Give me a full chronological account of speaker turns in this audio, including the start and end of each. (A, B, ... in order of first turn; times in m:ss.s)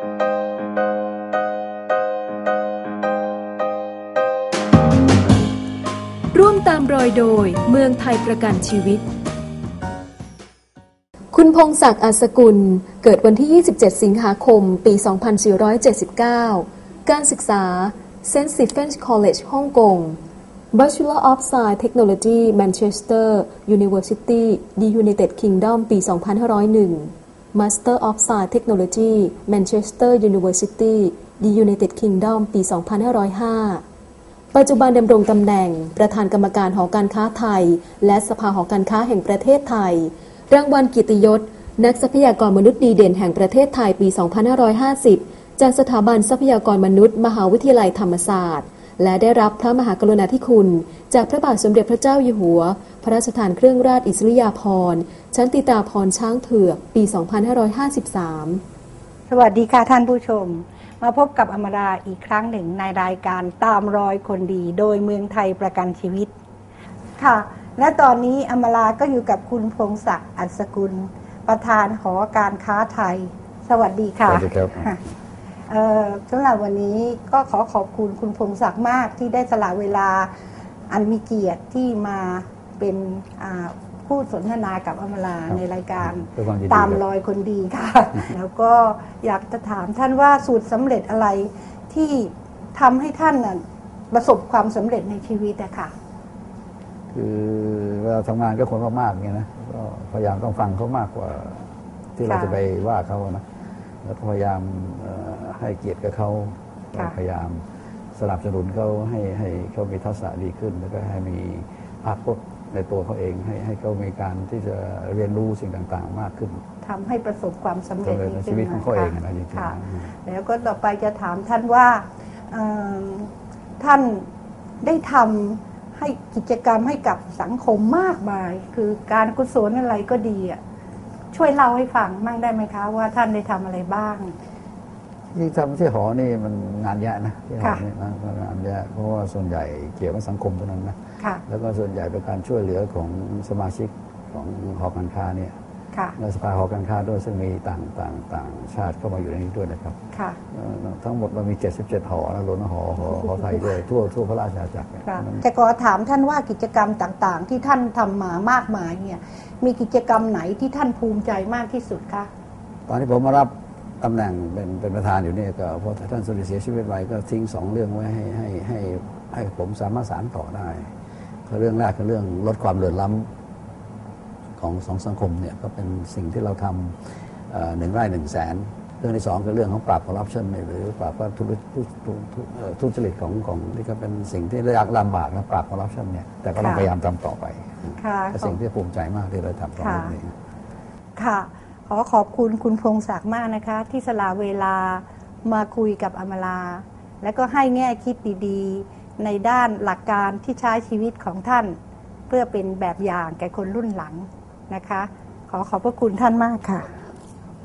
0:06.3-0:09.0 A
0:11.3-0:20.2 A
0:20.7-0:33.8 A
0:34.5-0:58.6 A
0:59.3-1:06.3 B
1:07.2-1:15.0 B
1:14.2-1:14.9 C
1:15.7-1:20.3 B
1:20.9-1:35.9 B
1:25.5-1:27.0 C
1:37.1-1:43.4 C
1:42.2-1:42.6 B
1:44.0-1:47.6 C
1:48.2-1:56.6 C
1:56.8-2:04.3 B
1:58.0-2:00.1 C
2:04.8-2:10.6 B
2:11.3-2:14.3 B
2:15.3-2:21.0 C
2:17.6-2:17.8 B
2:21.5-2:25.5 C
2:26.2-2:30.0 C
2:30.1-2:30.4 B
2:30.5-2:35.4 C
2:33.1-2:33.7 B
2:35.0-2:42.3 B
2:42.9-2:50.9 C
2:51.5-2:53.3 C
2:54.6-2:57.0 C
2:57.5-3:10.3 C
3:06.6-3:06.9 B
3:08.0-3:08.6 B
3:09.8-3:10.1 B
3:11.2-3:21.8 B
3:22.3-3:26.9 B